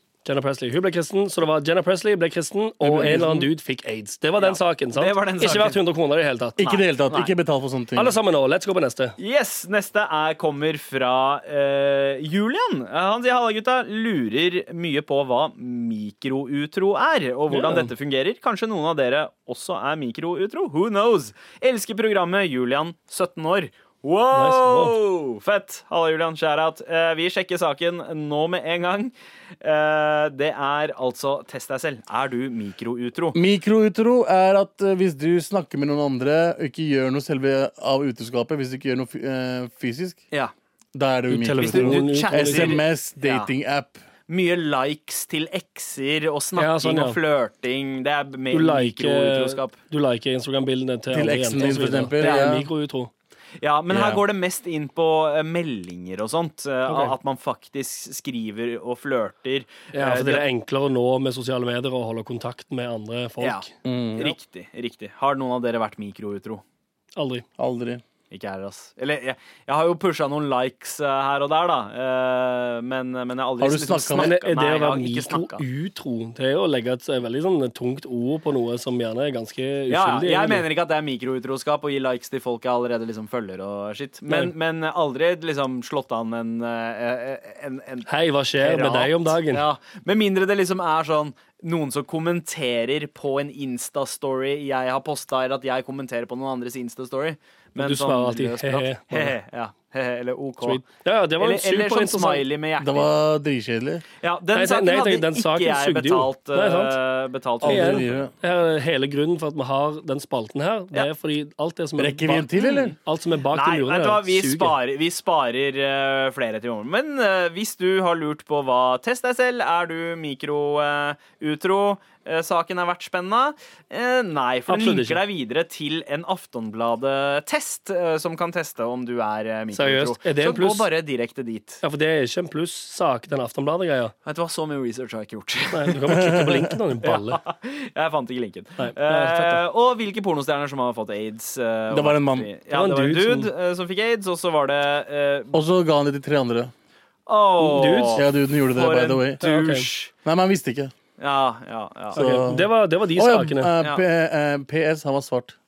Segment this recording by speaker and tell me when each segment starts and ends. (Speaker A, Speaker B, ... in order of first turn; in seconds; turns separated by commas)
Speaker A: 0.2-6.6, Speaker B: 2.8-3.5, Speaker C: 4.4-5.8, Speaker B: 6.6-8.1, Speaker C: 6.6-7.3, Speaker A: 8.0-9.1, Speaker C: 9.2-33.4, Speaker A: 17.5-17.9, Speaker A: 24.3-24.9, Speaker B: 33.3-40.2, Speaker B: 40.9-44.0, Speaker A: 41.3-42.8, Speaker C: 41.6-43.5, Speaker C: 44.3-49.8, Speaker A: 46.5-47.2, Speaker A: 48.5-53.1, Speaker B: 51.1-52.7, Speaker C: 52.2-52.5, Speaker C: 53.6-60.4, Speaker B: 53.9-54.2, Speaker A: 56.9-57.1, Speaker A: 59.9-63.7, Speaker C: 63.4-63.6, Speaker B: 63.8-64.3, Speaker C: 64.2-66.6, Speaker A: 67.2-67.4, Speaker B: 67.6-68.0, Speaker C: 68.3-75.6, Speaker B: 73.6-74.3, Speaker A: 74.2-80.6, Speaker C: 79.9-100.8, Speaker A: 84.3-84.5, Speaker A: 88.1-89.6, Speaker A: 97.8-99.3, Speaker A: 100.6-102.4, Speaker C: 101.4-103.1, Speaker B: 102.8-104.0, Speaker C: 104.2-108.1, Speaker A: 104.5-107.0, Speaker B: 107.6-108.3, Speaker A: 107.6-114.8, Speaker B: 112.0-112.9, Speaker C: 112.5-112.9, Speaker C: 113.5-131.8, Speaker A: 124.7-125.2, Speaker A: 129.7-130.9, Speaker A: 131.8-134.1, Speaker C: 134.2-136.4, Speaker A: 135.7-137.4, Speaker B: 136.1-136.7, Speaker C: 137.0-145.6, Speaker A: 138.8-139.6, Speaker B: 141.9-142.5, Speaker A: 142.7-143.5, Speaker B: 145.5-146.7, Speaker C: 147.3-150.1, Speaker A: 147.6-148.2, Speaker B: 148.1-149.4, Speaker A: 149.4-149.9, Speaker B: 150.2-150.9, Speaker C: 151.2-152.2, Speaker A: 152.1-153.7, Speaker B: 152.1-155.6